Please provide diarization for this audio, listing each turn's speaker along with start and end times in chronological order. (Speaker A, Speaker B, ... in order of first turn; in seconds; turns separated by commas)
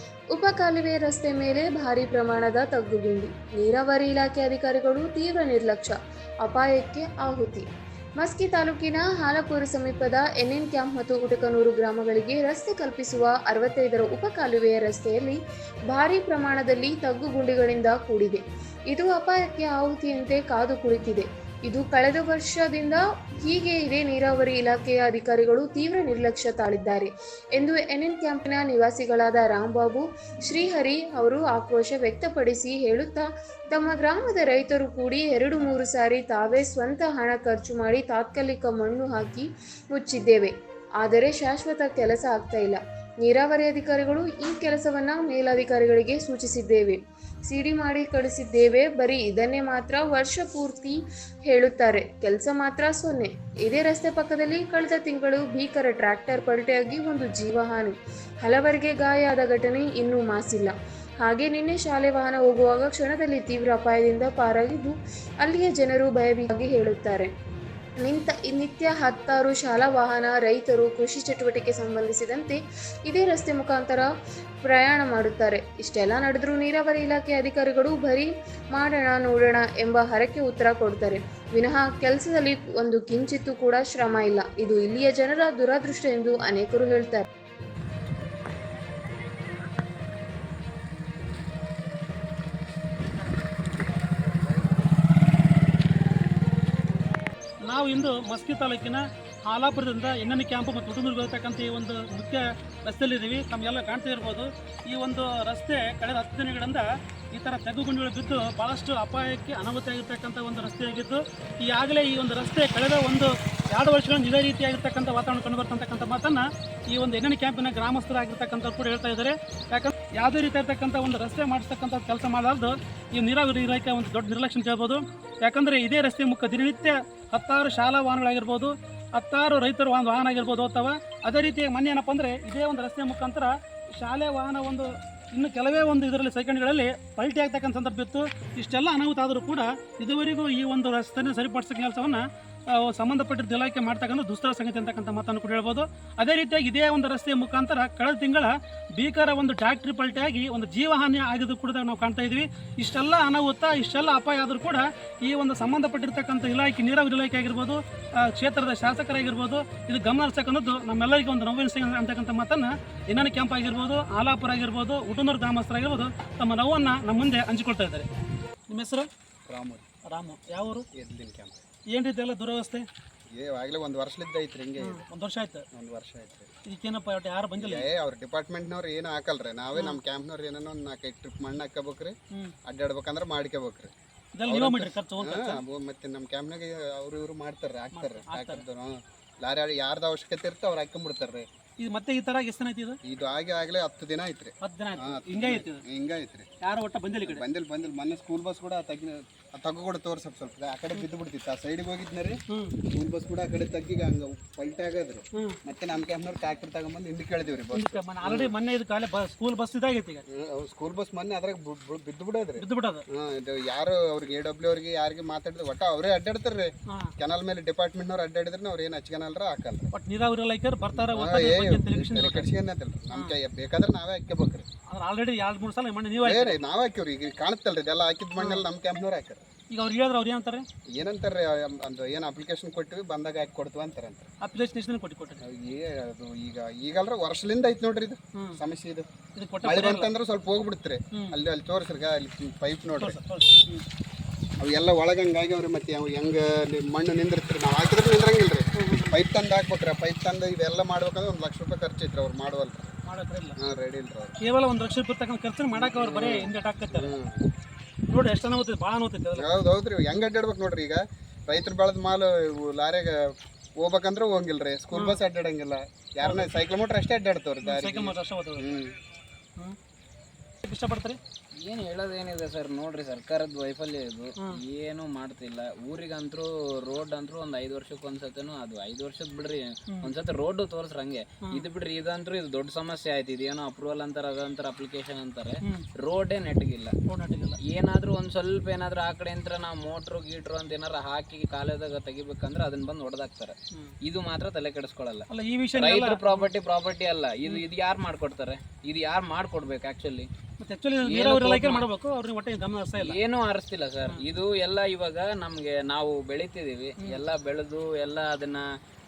Speaker A: 0.3-7.7, Speaker A: 8.2-15.4, Speaker A: 15.9-67.3, Speaker A: 68.0-74.1, Speaker A: 74.6-87.3, Speaker B: 94.3-94.7, Speaker C: 97.7-168.1, Speaker C: 168.7-169.1, Speaker B: 169.5-169.8, Speaker C: 170.1-170.8, Speaker B: 170.9-171.6, Speaker C: 171.9-172.8, Speaker B: 173.3-175.0, Speaker C: 174.8-175.6, Speaker B: 175.7-176.5, Speaker C: 176.7-177.9, Speaker B: 177.6-183.9, Speaker C: 184.4-185.6, Speaker B: 184.5-191.5, Speaker C: 187.9-188.6, Speaker C: 191.8-193.0, Speaker B: 193.0-196.5, Speaker C: 194.6-195.8, Speaker C: 196.6-197.4, Speaker B: 197.2-202.4, Speaker C: 202.5-202.8, Speaker B: 202.9-208.5, Speaker C: 207.7-210.2, Speaker B: 210.3-219.9, Speaker C: 212.6-213.0, Speaker C: 219.9-222.5, Speaker B: 220.9-224.7, Speaker C: 224.9-226.6, Speaker B: 226.2-229.4, Speaker C: 228.4-228.6, Speaker C: 229.7-230.7, Speaker B: 230.9-234.3, Speaker C: 234.4-235.4, Speaker B: 235.4-239.1, Speaker C: 239.3-240.1, Speaker B: 239.6-243.2, Speaker C: 243.0-243.8, Speaker B: 244.6-252.9, Speaker C: 248.7-249.2, Speaker C: 253.1-253.6, Speaker B: 253.6-254.3, Speaker C: 254.4-257.1, Speaker B: 255.7-257.5, Speaker C: 258.1-259.5, Speaker B: 259.4-269.0, Speaker C: 264.9-265.2, Speaker C: 266.2-266.5, Speaker C: 267.6-268.8, Speaker C: 270.6-271.2, Speaker D: 271.6-286.9, Speaker C: 287.1-287.6, Speaker D: 287.7-300.3, Speaker C: 295.3-296.5, Speaker C: 300.6-303.2, Speaker D: 301.0-301.9, Speaker D: 303.0-308.6